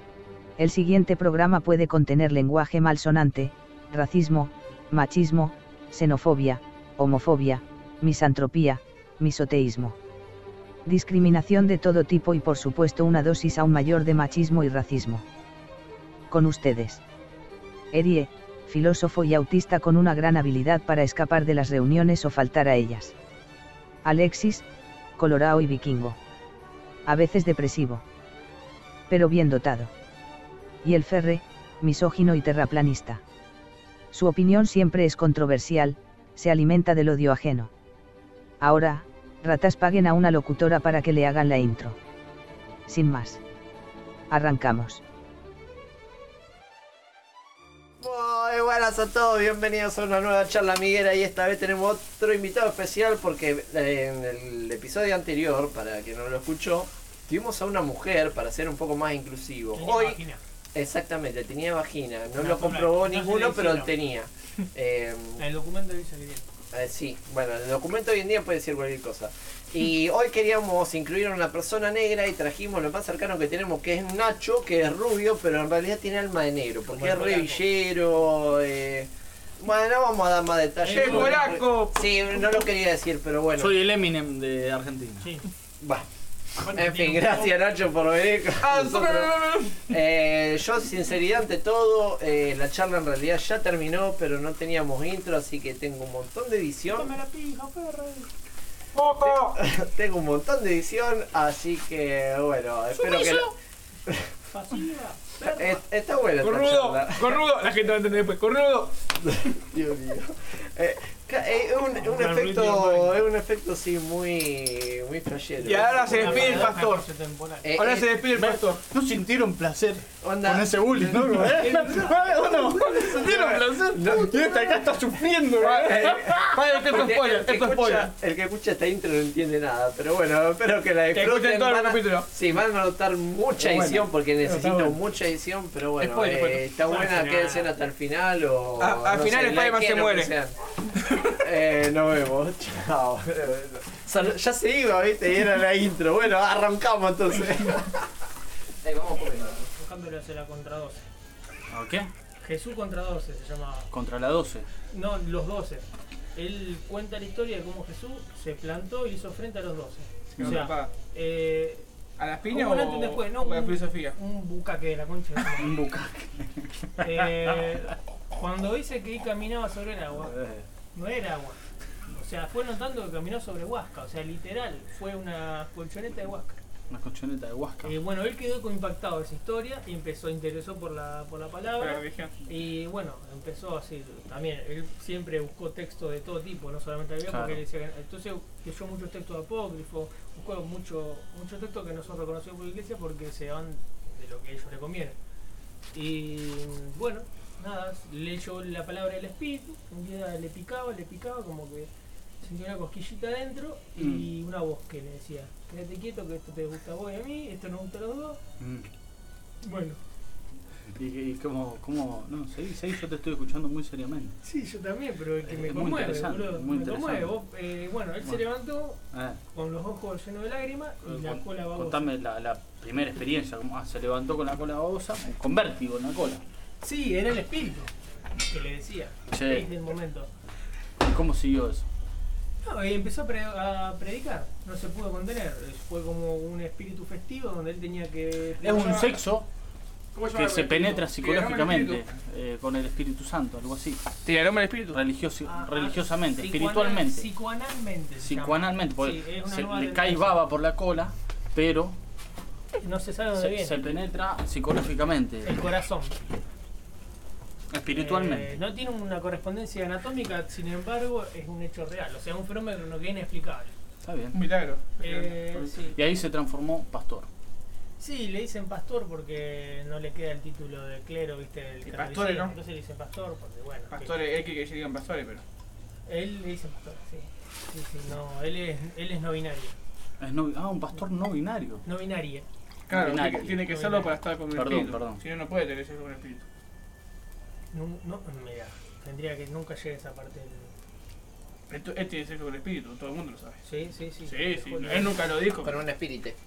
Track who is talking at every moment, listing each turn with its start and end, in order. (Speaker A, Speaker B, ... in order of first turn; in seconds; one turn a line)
Speaker A: 0.6-10.0
Speaker A: 10.9-15.2
Speaker A: 16.3-17.0
Speaker A: 17.9-23.1
Speaker A: 24.0-24.6
Speaker A: 25.2-26.2
Speaker A: 27.1-28.0
Speaker A: 29.1-29.9
Speaker A: 30.8-33.2
Speaker A: 34.1-37.7
Speaker A: 38.6-42.0
Speaker A: 42.9-43.4
Speaker A: 44.3-45.0
Speaker B: 48.0-60.2
Speaker C: 59.7-60.4
Speaker B: 60.7-65.4
Speaker C: 62.4-64.0
Speaker C: 65.4-66.4
Speaker B: 66.7-79.1
Speaker C: 76.9-77.7
Speaker B: 79.6-83.7
Speaker C: 80.8-81.5
Speaker D: 80.8-82.5
Speaker E: 83.6-85.3
Speaker C: 85.2-85.5
Speaker B: 85.8-86.1
Speaker C: 86.6-87.5
Speaker B: 86.6-89.3
Speaker D: 88.6-89.9
Speaker B: 89.9-97.1
Speaker C: 96.9-98.3
Speaker D: 98.9-99.6
Speaker B: 99.2-103.5
Speaker E: 103.0-103.5
Speaker C: 104.5-105.8
Speaker B: 105.4-107.4
Speaker D: 106.4-109.0
Speaker B: 109.2-116.7
Speaker C: 111.9-113.2
Speaker D: 115.6-117.1
Speaker C: 116.0-117.7
Speaker B: 117.6-118.1
Speaker D: 117.7-118.8
Speaker E: 118.3-128.1
Speaker B: 120.2-124.8
Speaker C: 121.5-122.5
Speaker D: 123.1-123.8
Speaker D: 125.6-128.1
Speaker B: 125.6-140.6
Speaker D: 131.1-132.3
Speaker E: 133.6-134.1
Speaker D: 134.4-135.0
Speaker D: 136.0-137.6
Speaker C: 136.9-137.6
Speaker D: 138.8-140.3
Speaker B: 141.4-148.1
Speaker B: 148.8-149.7
Speaker C: 149.8-151.0
Speaker E: 151.7-152.1
Speaker C: 152.4-153.9
Speaker E: 153.9-154.7
Speaker C: 154.9-161.9
Speaker D: 160.4-160.9
Speaker D: 162.2-164.2
Speaker C: 162.5-165.8
Speaker E: 165.6-167.8
Speaker C: 167.0-170.4
Speaker E: 170.3-170.7
Speaker C: 170.9-176.6
Speaker E: 176.9-177.9
Speaker C: 177.8-195.2
Speaker D: 181.8-182.3
Speaker E: 187.3-187.6
Speaker C: 195.9-201.9
Speaker C: 202.4-208.4
Speaker E: 204.0-204.3
Speaker E: 208.6-208.9
Speaker C: 209.6-210.0
Speaker E: 210.9-214.4
Speaker C: 214.4-219.0
Speaker E: 215.4-217.4
Speaker E: 219.1-219.4
Speaker C: 219.5-222.1
Speaker E: 221.1-226.4
Speaker C: 226.8-230.3
Speaker E: 229.3-229.7
Speaker E: 231.0-231.9
Speaker C: 232.6-239.2
Speaker E: 238.6-239.5
Speaker D: 238.8-239.0
Speaker D: 240.1-242.0
Speaker E: 240.3-244.1
Speaker D: 244.2-245.0
Speaker E: 244.9-247.3
Speaker C: 245.5-250.4
Speaker E: 248.2-252.0
Speaker C: 252.8-253.8
Speaker E: 253.3-255.6
Speaker C: 255.4-256.1
Speaker E: 257.7-258.5
Speaker C: 257.9-263.7
Speaker E: 264.0-264.4
Speaker D: 264.3-265.4
Speaker C: 265.0-266.0
Speaker E: 265.6-267.3
Speaker C: 268.0-274.1
Speaker D: 271.9-272.5
Speaker D: 273.9-275.4
Speaker C: 276.1-279.8
Speaker E: 280.2-281.8
Speaker C: 281.8-282.4
Speaker D: 282.9-286.4
Speaker E: 282.9-283.6
Speaker C: 283.6-284.2
Speaker E: 284.5-285.2
Speaker C: 287.7-290.7
Speaker D: 291.7-293.6
Speaker C: 293.6-295.3
Speaker D: 294.2-295.8
Speaker B: 295.6-296.4